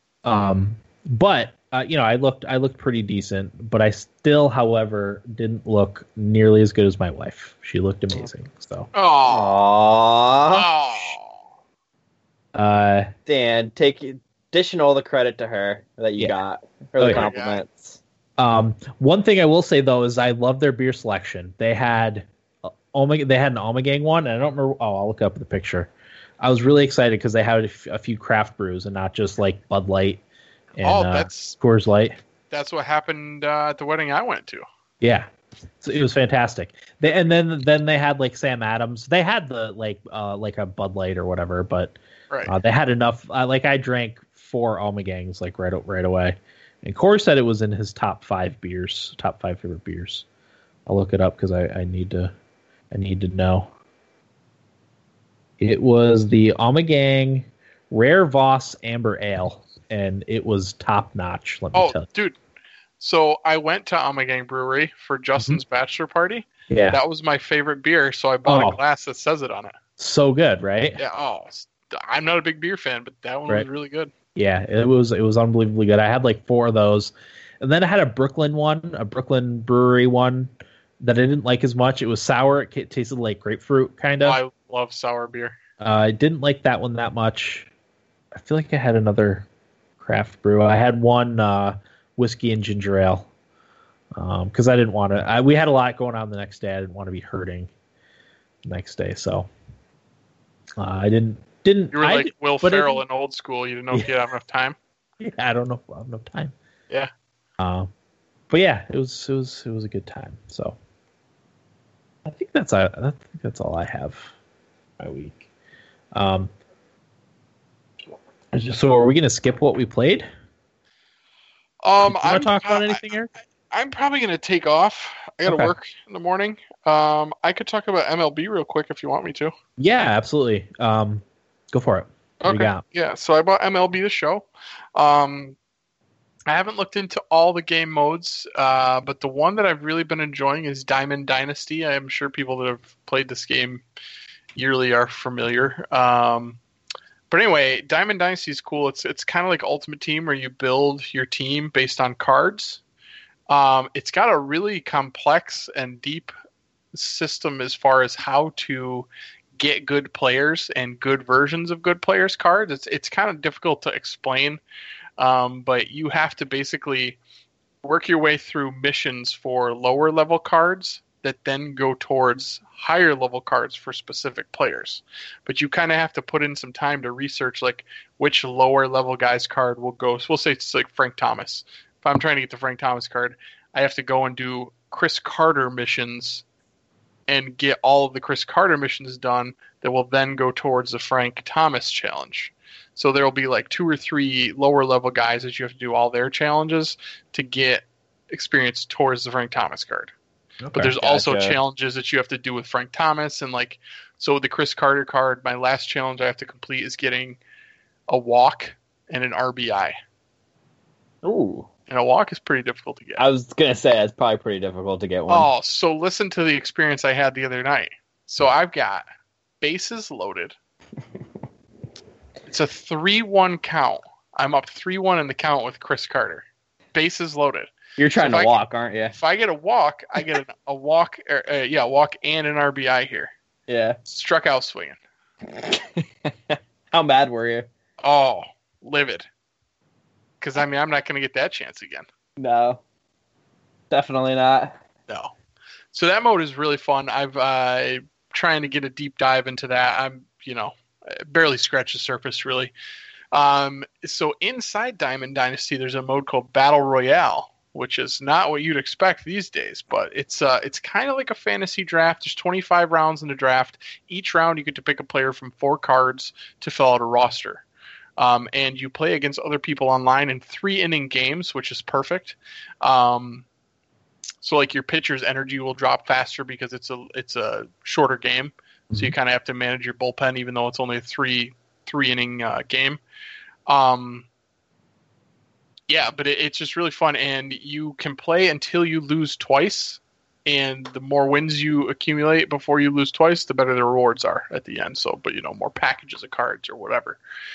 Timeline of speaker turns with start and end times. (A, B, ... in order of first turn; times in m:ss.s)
0:00.2-0:08.9 A
0:08.9-0:09.5 B
0:09.3-0:10.7 C
0:10.5-0:11.3 B
0:12.5-0:13.1 A
0:13.2-0:18.0 C
0:17.0-0:17.3 A
0:17.1-0:17.6 B
0:18.4-0:25.9 A
0:26.4-0:30.2 A
0:30.7-0:32.2 A
0:30.8-0:31.6 B
0:32.5-0:34.6 B
0:35.0-0:35.3 A
0:35.8-0:50.2 A
0:50.8-0:52.3 A
0:52.9-0:53.7 A
0:55.6-1:02.0 A
1:01.7-1:02.4 B
1:03.0-1:09.8 B
1:06.7-1:07.0 A
1:08.4-1:08.8 A
1:10.0-1:11.0 A
1:11.0-1:14.1 B
1:14.3-1:24.4 A
1:24.2-1:25.5 B
1:25.8-1:27.7 A
1:28.3-1:29.5 A
1:30.0-1:33.3 A
1:34.1-1:37.7 A
1:38.6-1:39.5 A
1:40.8-1:43.0 A
1:41.9-1:44.8 B
1:45.2-1:46.5 A
1:47.6-1:47.9 A
1:48.5-1:50.8 A
1:52.2-1:54.3 A
1:55.0-1:55.4 A
1:56.1-1:56.5 A
1:58.5-2:00.2 A
2:01.8-2:03.0 B
2:02.0-2:03.3 A
2:03.7-2:09.5 B
2:05.4-2:05.7 A
2:09.8-2:12.8 A
2:12.4-2:15.6 B
2:16.5-2:23.8 B
2:24.5-2:26.6 B
2:27.3-2:32.8 B
2:33.5-2:36.3 B
2:36.9-2:44.6 B
2:45.2-2:47.2 B
2:47.8-3:06.4 B
3:07.3-3:20.1 B
3:20.6-3:20.9 A
3:20.8-3:27.4 B
3:21.0-3:21.6 C
3:28.1-3:29.9 B
3:31.2-3:31.7 C
3:31.9-3:33.2 B
3:33.2-3:35.5 C
3:35.3-3:39.0 B
3:39.6-3:40.5 B
3:42.5-3:48.6 B
3:48.0-3:49.1 C
3:49.1-3:53.3 B
3:53.7-3:54.0 C
3:54.0-3:55.0 B
3:55.6-3:57.7 C
3:58.0-3:59.2 B
4:00.4-4:02.0 B
4:02.4-4:02.8 C
4:03.9-4:04.7 C
4:05.9-4:10.7 B
4:11.3-4:12.7 B
4:13.3-4:27.6 B
4:28.2-4:33.4 B
4:34.4-4:43.0 B
4:43.7-4:44.3 B
4:45.9-4:57.2 B